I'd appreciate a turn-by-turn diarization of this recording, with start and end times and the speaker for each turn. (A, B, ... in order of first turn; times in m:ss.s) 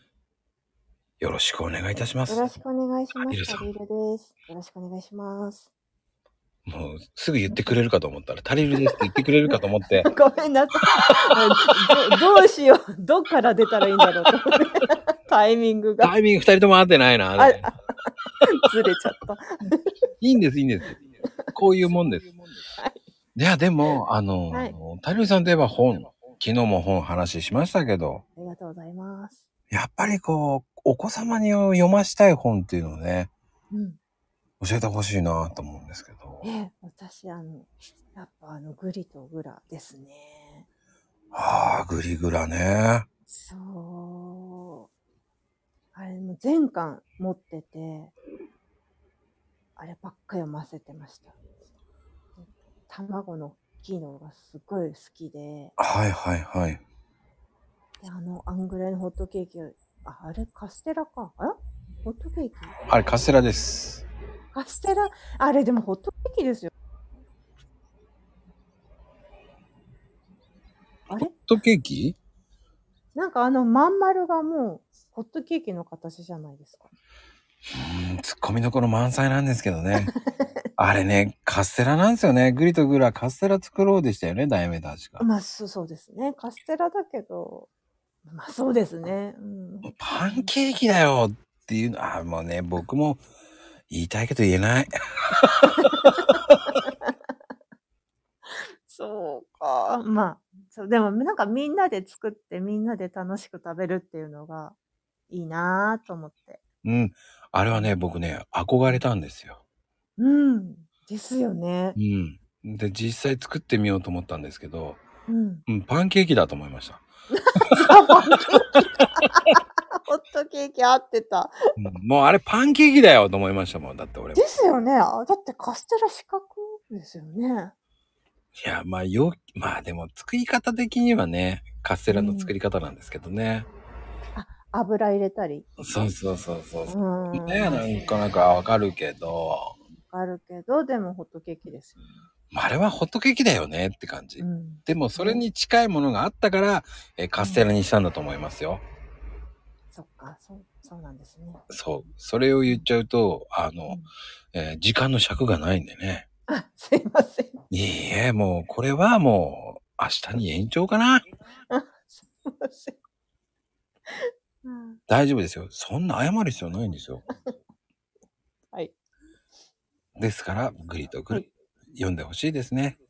0:01.2-0:02.5 A
0:02.3-0:05.7 B
0:03.3-0:03.7 A
0:06.7-0:10.1 A
0:09.5-0:16.1 B
0:16.0-0:17.7 A
0:17.4-0:19.9 B
0:20.2-0:21.0 A
0:21.5-0:22.3 A
0:22.8-0:23.0 B
0:23.4-0:28.2 A
0:28.4-0:29.5 B
0:29.7-0:33.3 A
0:33.7-0:34.0 B
0:34.6-0:36.5 A
0:36.4-0:40.7 B
0:41.3-0:43.1 A
0:43.4-0:44.9 B
0:45.9-0:48.1 B
0:49.8-0:51.4 B
0:52.4-0:55.7 B
0:55.8-0:56.8 A
0:58.0-1:02.8 B
1:02.9-1:04.0 A
1:04.5-1:06.7 B
1:11.2-1:12.2 A
1:13.2-1:16.9 B
1:17.7-1:20.1 A
1:20.0-1:20.4 B
1:20.8-1:25.2 A
1:25.2-1:27.7 B
1:28.3-1:30.5 B
1:29.8-1:33.2 A
1:33.9-1:34.9 A
1:35.6-1:36.6 A
1:35.8-1:36.2 B
1:36.8-1:37.1 B
1:38.9-1:44.8 B
1:45.3-1:46.6 B
1:46.8-1:49.6 A
1:50.2-1:52.0 B
1:52.0-1:55.0 A
1:55.3-1:55.6 B
1:55.7-1:57.0 A
1:57.3-1:59.4 B
1:57.6-1:57.9 A
1:58.8-1:59.6 A
2:00.1-2:01.6 B
2:01.8-2:04.4 A
2:04.4-2:07.7 B
2:08.6-2:13.7 A
2:12.1-2:12.5 B
2:14.4-2:15.7 B
2:15.8-2:19.8 A
2:16.9-2:17.9 B
2:20.0-2:22.2 B
2:22.5-2:28.8 A
2:24.4-2:25.4 B
2:27.4-2:27.6 B
2:29.9-2:31.6 B
2:31.7-2:34.0 A
2:34.5-2:36.2 A
2:36.5-2:37.6 B
2:37.7-2:41.2 A
2:41.7-2:43.0 B
2:44.1-2:45.0 B
2:45.1-2:47.2 A
2:50.2-2:53.0 A